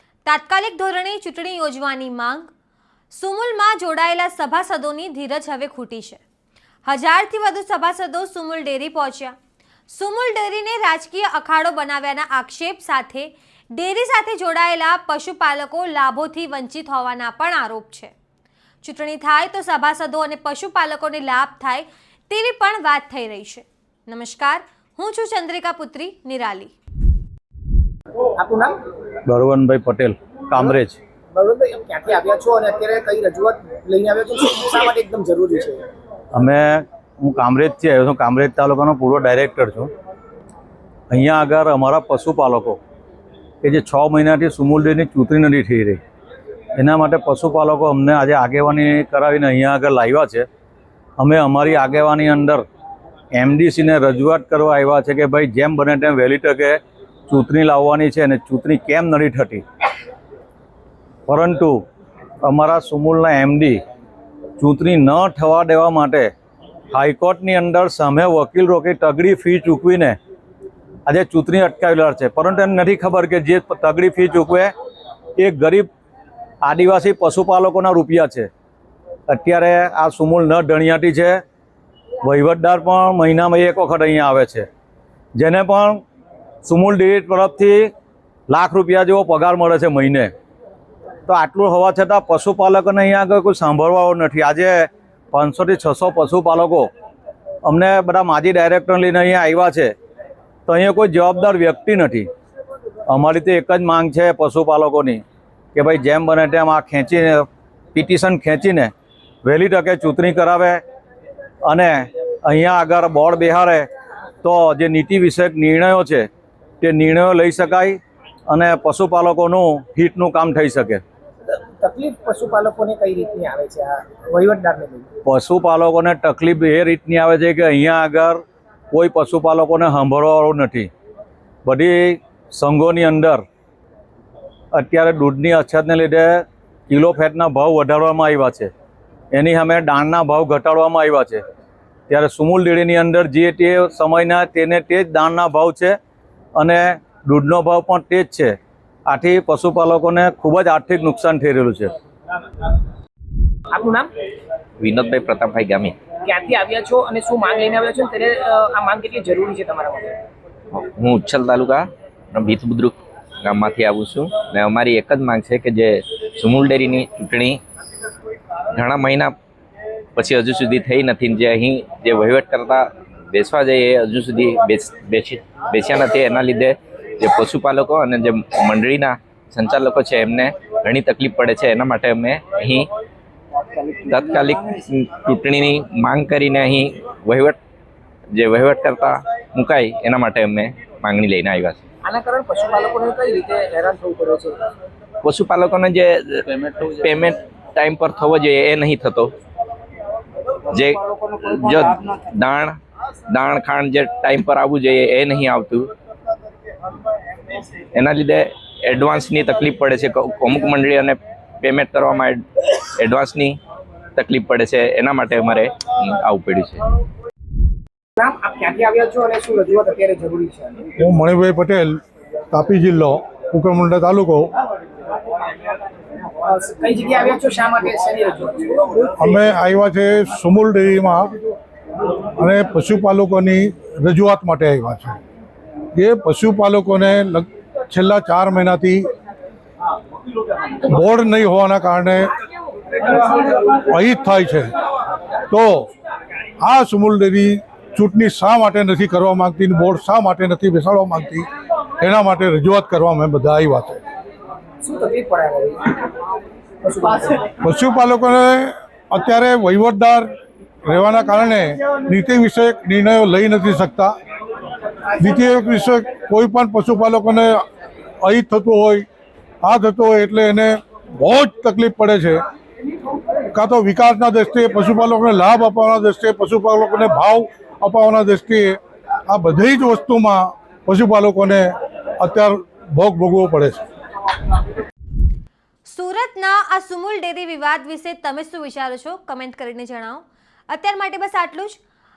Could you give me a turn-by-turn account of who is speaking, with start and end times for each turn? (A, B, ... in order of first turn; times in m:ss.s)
0:00.2-0:02.5 A
0:03.1-0:06.2 A
0:06.8-0:09.3 A
0:09.9-0:18.1 A
0:18.8-0:26.7 A
0:28.4-0:28.8 B
0:29.3-0:31.0 C
0:31.3-0:35.8 B
0:36.3-0:39.9 C
0:41.1-0:42.8 C
0:43.6-0:46.0 C
0:46.8-0:50.4 C
0:51.2-0:52.6 C
0:53.3-0:59.6 C
1:01.3-1:01.8 C
1:02.4-1:03.8 C
1:04.6-1:06.3 C
1:06.9-1:10.2 C
1:11.0-1:14.7 C
1:15.4-1:15.9 C
1:16.6-1:18.5 C
1:19.3-1:21.4 C
1:22.2-1:24.7 C
1:25.4-1:26.0 C
1:26.6-1:27.9 C
1:28.5-1:30.3 C
1:31.3-1:36.9 C
1:37.6-1:39.9 C
1:40.7-1:42.3 C
1:43.1-1:45.2 C
1:45.7-1:48.9 C
1:49.4-1:50.8 C
1:51.6-1:53.9 C
1:54.4-1:56.3 C
1:56.8-2:01.0 C
2:01.5-2:05.1 B
2:05.2-2:08.4 C
2:08.9-2:10.9 C
2:11.6-2:13.4 C
2:14.7-2:18.7 C
2:19.3-2:21.4 C
2:22.1-2:26.0 C
2:26.6-2:28.6 C
2:29.1-2:31.9 C
2:33.7-2:34.1 B
2:34.8-2:36.0 D
2:36.2-2:40.2 B
2:40.7-2:47.6 D
2:48.8-2:49.3 D
2:50.2-3:02.9 D
3:03.8-3:07.6 D
3:08.3-3:11.8 D
3:12.0-3:14.7 B
3:15.2-3:19.3 D
3:20.7-3:22.8 D
3:23.3-3:25.9 D
3:27.9-3:32.4 D
3:33.0-3:33.6 D
3:34.2-3:36.8 D
3:38.2-3:40.9 B
3:41.0-3:42.0 E
3:42.5-3:44.5 E
3:46.4-3:49.4 B
3:49.2-3:51.3 E
3:52.4-3:55.2 E
3:55.9-3:59.1 E
4:00.8-4:02.3 E
4:03.4-4:04.7 E
4:05.5-4:05.9 E
4:06.6-4:11.5 E
4:12.0-4:14.0 E
4:14.8-4:16.0 B
4:16.8-4:17.6 B
4:17.6-4:20.3 E
4:20.8-4:24.1 E
4:25.2-4:27.6 E
4:28.2-4:29.0 E
4:29.6-4:32.4 E
4:33.5-4:43.8 E
4:45.8-4:51.8 A